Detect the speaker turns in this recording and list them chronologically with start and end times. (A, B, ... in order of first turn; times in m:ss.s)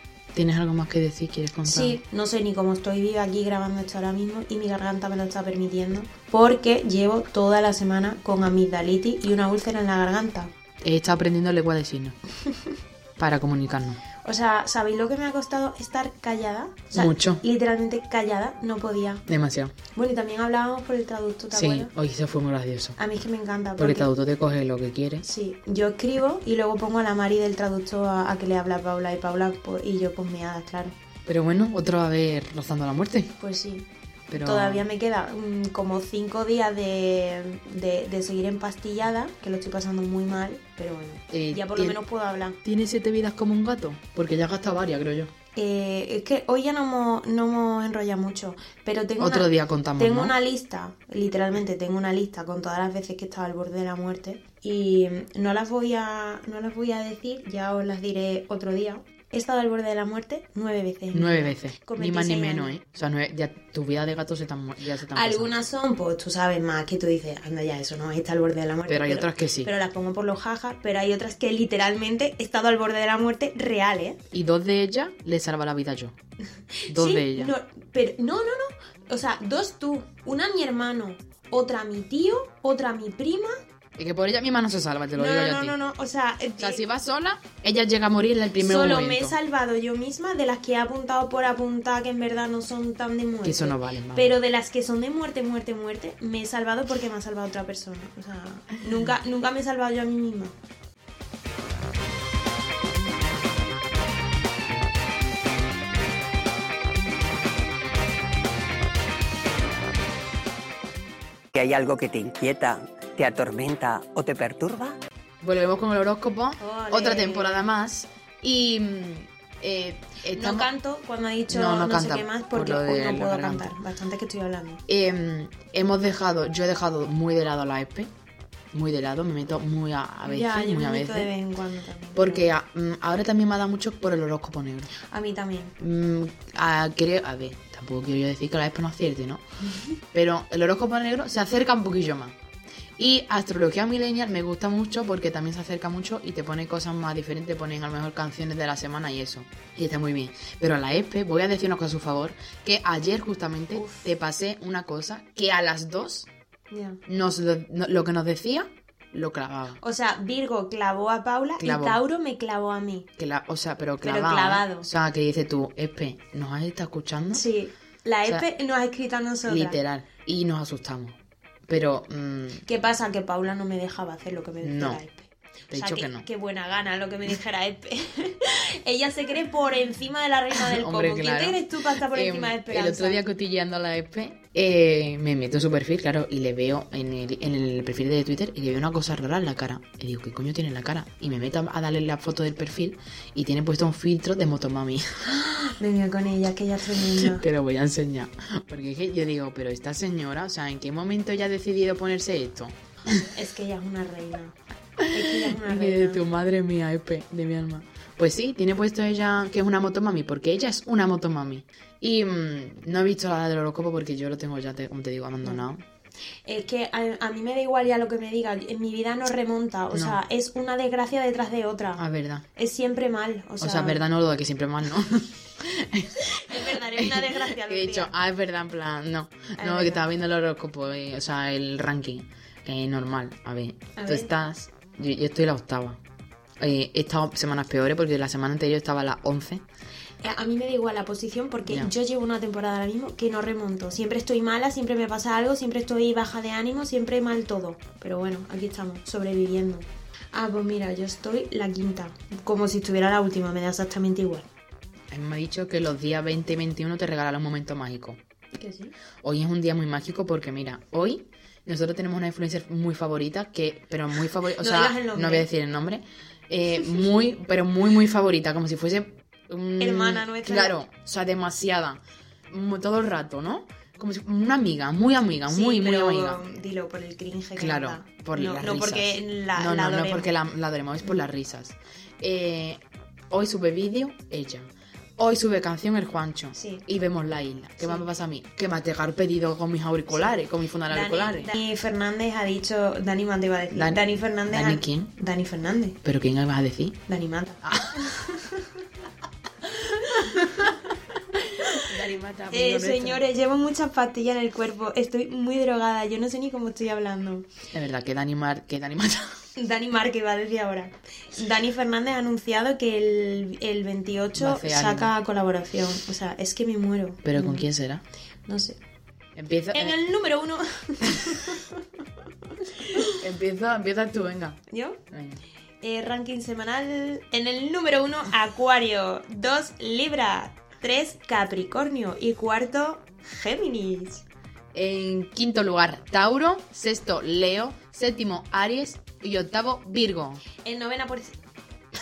0:00.3-0:02.0 A
0:01.6-0:10.5 B
0:10.8-0:12.2 A
0:13.2-0:14.0 A
0:14.2-0:19.2 B
0:16.9-0:17.4 A
0:19.3-0:19.8 A
0:19.9-0:21.9 B
0:21.5-0:23.0 A
0:23.0-0:24.1 B
0:23.8-0:25.2 A
0:25.2-0:30.9 B
0:31.2-0:33.3 A
0:33.4-0:42.6 B
0:34.3-0:34.8 A
0:41.3-0:42.0 A
0:42.6-0:45.3 A
0:45.5-1:02.7 B
0:49.2-0:50.3 A
1:01.1-1:05.5 A
1:05.1-1:14.2 B
1:08.9-1:09.7 A
1:14.3-1:16.2 A
1:16.7-1:23.6 B
1:16.9-1:17.5 A
1:24.0-1:25.8 A
1:25.1-1:26.8 B
1:26.6-1:29.4 A
1:28.6-1:40.5 B
1:33.4-1:34.3 A
1:51.5-1:54.9 C
1:55.4-2:00.7 A
1:56.6-1:57.6 B
2:00.3-2:04.8 B
2:01.5-2:03.7 A
2:04.9-2:08.1 A
2:08.7-2:11.3 A
2:10.2-2:12.5 B
2:12.1-2:14.9 A
2:15.0-2:15.8 B
2:15.8-2:19.4 A
2:20.1-2:22.4 A
2:23.0-2:36.3 A
2:33.7-2:34.1 B
2:36.7-2:37.0 B
2:37.1-2:39.8 A
2:39.8-2:43.1 B
2:41.6-2:42.0 A
2:43.2-2:47.4 A
2:44.0-2:44.9 B
2:47.3-2:49.8 B
2:49.4-2:52.6 A
2:52.6-3:03.2 B
2:54.6-2:55.0 A
2:55.7-2:56.3 A
3:00.5-3:15.0 A
3:15.3-3:17.4 B
3:17.2-3:23.3 A
3:23.3-3:24.6 B
3:25.0-3:35.8 A
3:25.1-3:26.2 B
3:36.4-3:42.0 B
3:39.9-3:40.2 A
3:42.0-3:42.4 A
3:42.6-3:44.0 B
3:43.6-3:56.0 A
3:46.4-3:48.1 B
3:49.6-3:50.0 B
3:54.0-3:54.3 B
3:56.6-3:59.6 A
4:00.2-4:14.5 B
4:01.7-4:01.9 A
4:15.1-4:18.2 A
4:18.5-4:18.9 B
4:19.2-4:36.4 A
4:24.6-4:25.5 B
4:29.8-4:30.8 B
4:35.5-4:40.3 B
4:37.6-4:51.5 A
4:46.5-4:46.8 B
4:47.8-4:48.0 B
4:50.9-4:56.0 B
4:53.7-4:55.1 A
4:56.0-4:57.0 A
4:57.1-4:58.7 B
4:57.6-4:58.2 A
4:59.9-5:00.7 A
5:00.0-5:00.8 B
5:01.6-5:01.9 B
5:01.6-5:03.2 A
5:02.5-5:07.5 B
5:07.7-5:09.4 A
5:09.6-5:17.7 B
5:14.4-5:15.1 A
5:17.2-5:18.0 A
5:18.5-5:18.8 B
5:19.4-5:20.0 A
5:19.7-5:21.8 B
5:22.8-5:23.1 B
5:23.2-5:25.4 A
5:24.7-5:25.0 B
5:25.8-5:34.2 B
5:34.7-5:40.4 A
5:40.6-5:41.4 B